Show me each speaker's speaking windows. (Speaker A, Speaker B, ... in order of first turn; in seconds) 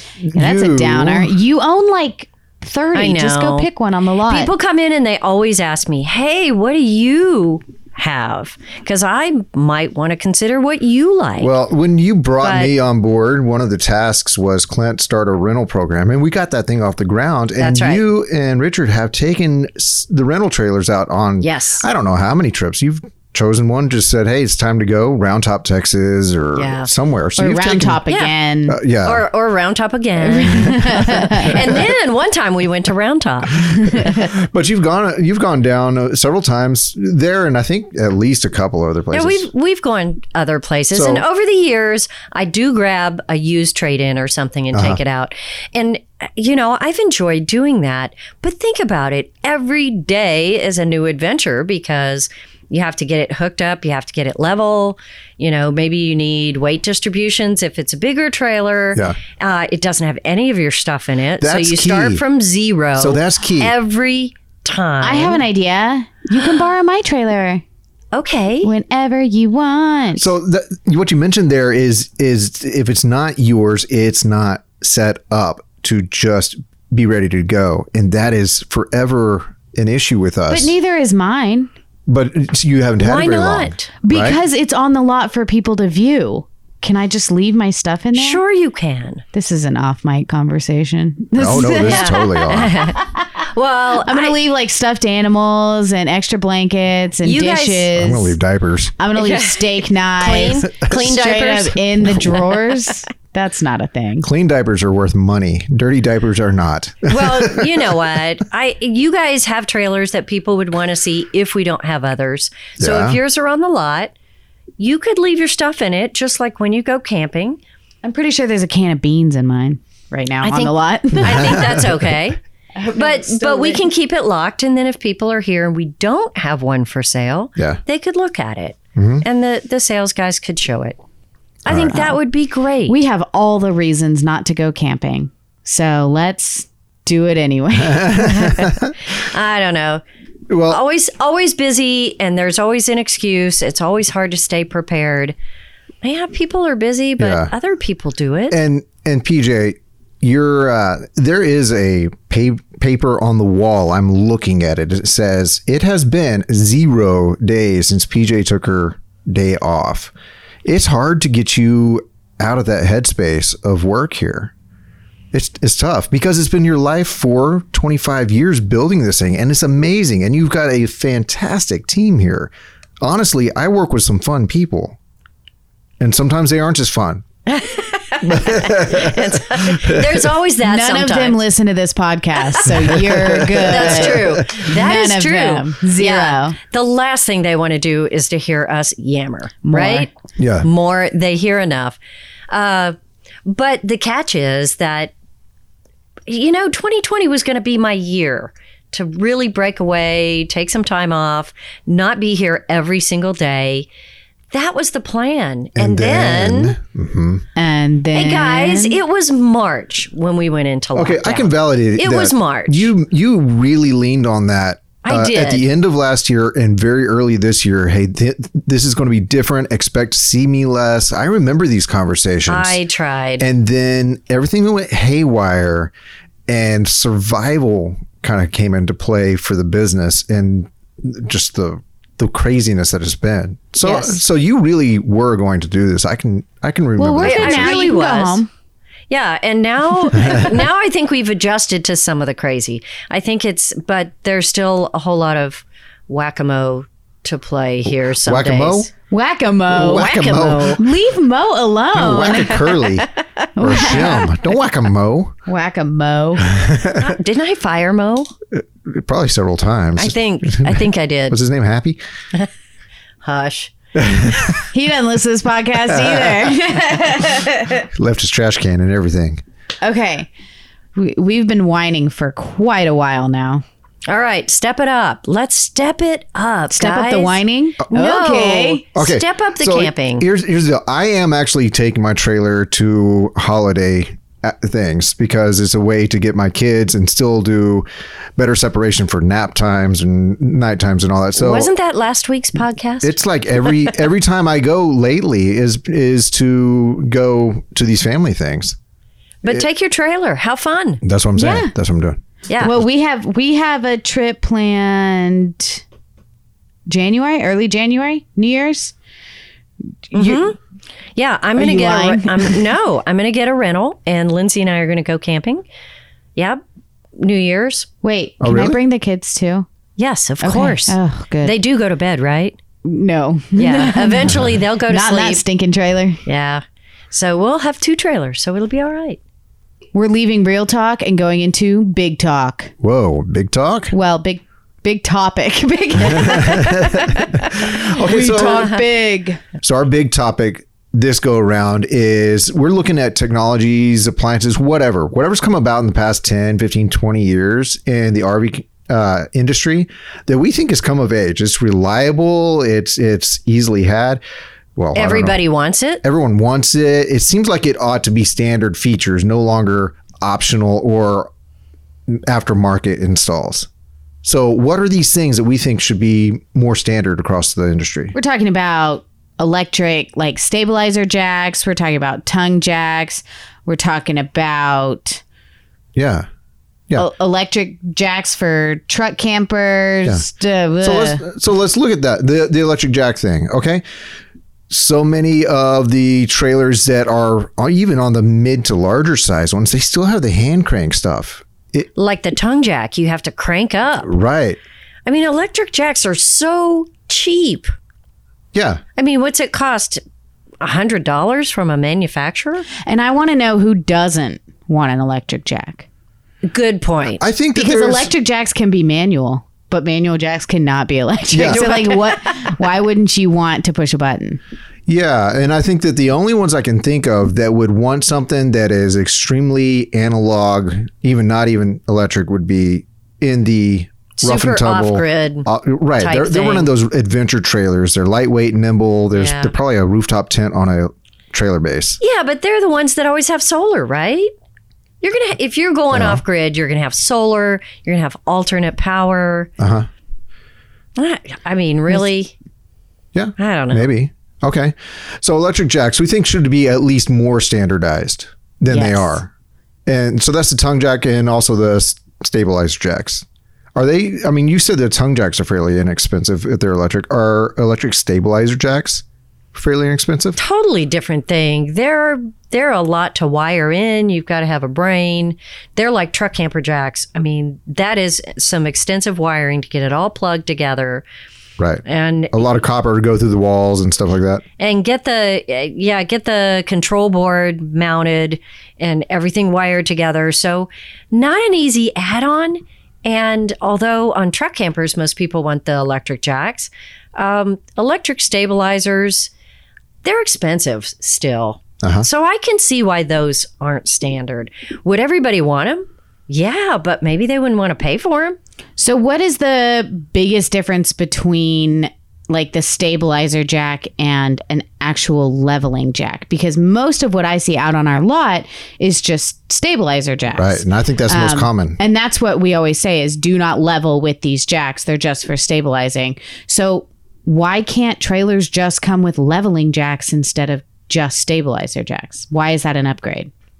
Speaker A: 0.2-1.3, 11.4-28.0, 28.7-29.2, 34.0-39.5, 40.9-41.2, 44.7-45.0, 61.4-62.2, 63.0-63.7, 70.2-80.7, 82.1-84.4, 91.4-92.8, 97.9-98.9, 104.2-108.0, 112.8-113.2, 121.3-121.7, 128.9-129.2, 131.7-132.1, 137.8-138.9, 140.5-140.8, 147.2-147.5, 148.5-160.1, 160.6-164.5, 165.3-175.0, 176.0-177.2, 178.2-180.3, 182.9-184.6, 190.4-190.7, 205.8-207.4, 210.9-222.8, 223.4-225.9, 226.5-237.9, 248.2-248.9, 249.7-250.8, 251.9-255.3, 256.4-257.1, 258.5-262.0, 263.9-264.6, 265.9-266.4, 267.9-269.4, 278.9-287.9, 288.4-291.7, 293.0-298.8, 301.0-302.2, 318.4-318.8, 332.8-333.9, 336.1-338.7, 339.6-354.2, 354.8-355.4, 356.0-361.3, 362.1-363.7, 364.2-368.1, 375.9-376.2, 380.8-383.8, 384.7-391.9, 394.0-394.6, 398.5-398.8, 407.2-408.1, 411.3-411.7, 414.9-432.0, 435.9-436.2, 439.6-439.9, 443.1-449.3, 449.9-460.4, 471.6-474.4, 491.8-492.1, 510.3-511.8
Speaker B: 0.3-4.5, 27.4-28.8, 30.2-31.6, 65.0-67.6, 68.6-70.3, 80.5-81.7, 84.0-88.4, 89.3-93.2, 94.0-98.3, 99.0-104.3, 118.0-121.8, 122.8-123.8, 132.9-138.6, 180.6-186.6, 189.6-190.1, 207.6-209.0, 233.8-234.1, 237.0-238.5, 249.1-252.8, 253.6-254.3, 255.4-256.5, 264.7-267.8, 269.8-270.3, 270.9-273.6, 276.7-278.8, 301.4-301.7, 302.6-305.8, 306.9-308.9, 310.1-310.4, 311.6-312.6, 318.0-319.7, 320.4-321.6, 322.8-326.2, 329.9-332.7, 333.9-339.4, 368.1-375.2, 376.9-381.2, 402.8-405.9, 407.5-414.4, 448.7-449.2, 498.8-523.3
Speaker C: 2.9-3.7, 4.3-11.5, 12.4-12.7, 17.6-18.0, 21.4-21.8, 26.5-26.9, 29.0-34.3, 39.1-65.4, 68.1-68.7, 83.0-83.9, 88.1-89.2, 91.8-94.3, 97.2-97.9, 99.2-102.7, 107.1-114.1, 114.8-117.6, 120.4-122.4, 122.9-131.0, 131.6-133.0, 138.6-140.0, 140.7-145.3, 146.0-148.6, 177.5-181.4, 183.6-190.1, 190.6-192.0, 192.5-195.1, 196.3-203.9, 204.5-206.8, 208.1-212.9, 215.0-215.6, 222.5-223.5, 237.2-238.4, 239.1-248.9, 249.7-250.8, 252.6-253.0, 256.9-258.3, 260.0-261.4, 263.2-263.7, 274.1-280.2, 291.4-294.0, 299.4-301.0, 302.5-302.8, 310.1-310.6, 311.1-315.6, 316.4-316.6, 317.1-317.9, 320.0-322.6, 323.6-325.4, 326.2-329.2, 338.3-338.8, 354.9-356.0, 391.9-394.1, 395.1-397.7, 398.9-400.0, 400.6-402.7, 406.4-407.2, 411.4-412.4, 424.2-425.5, 426.0-426.7, 429.1-429.5, 432.0-434.3, 435.0-439.5, 441.0-442.3, 443.4-443.9, 460.4-471.0, 471.9-472.5, 474.6-489.3, 490.0-498.4